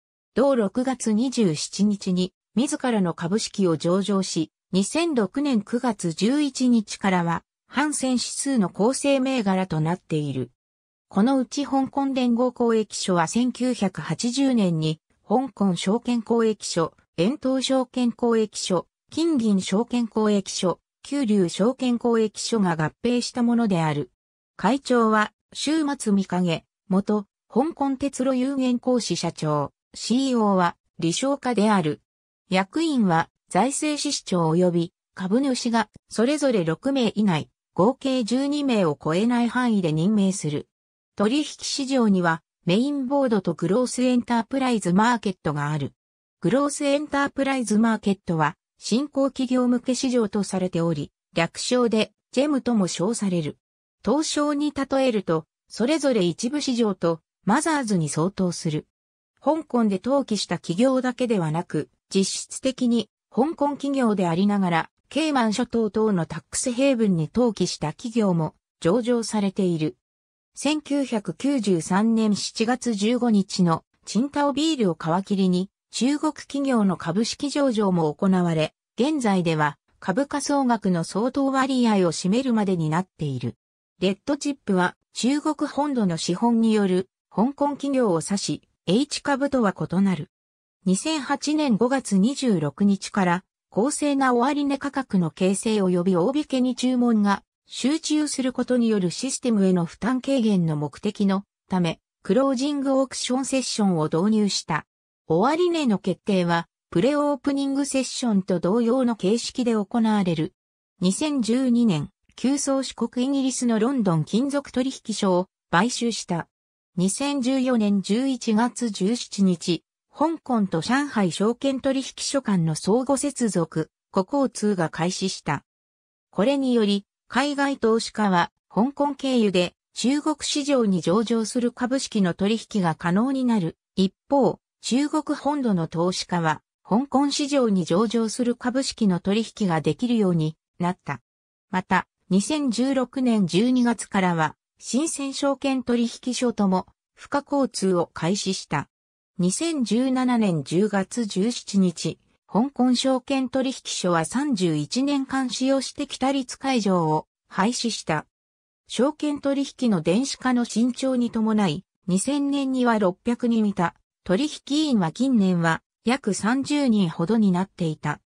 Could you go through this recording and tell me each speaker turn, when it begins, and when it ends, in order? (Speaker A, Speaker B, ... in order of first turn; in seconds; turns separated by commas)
Speaker A: 0.3-10.5, Speaker A: 11.1-58.9, Speaker A: 59.4-70.0, Speaker A: 70.5-90.3, Speaker A: 90.8-125.6, Speaker A: 126.3-158.3, Speaker A: 158.9-168.2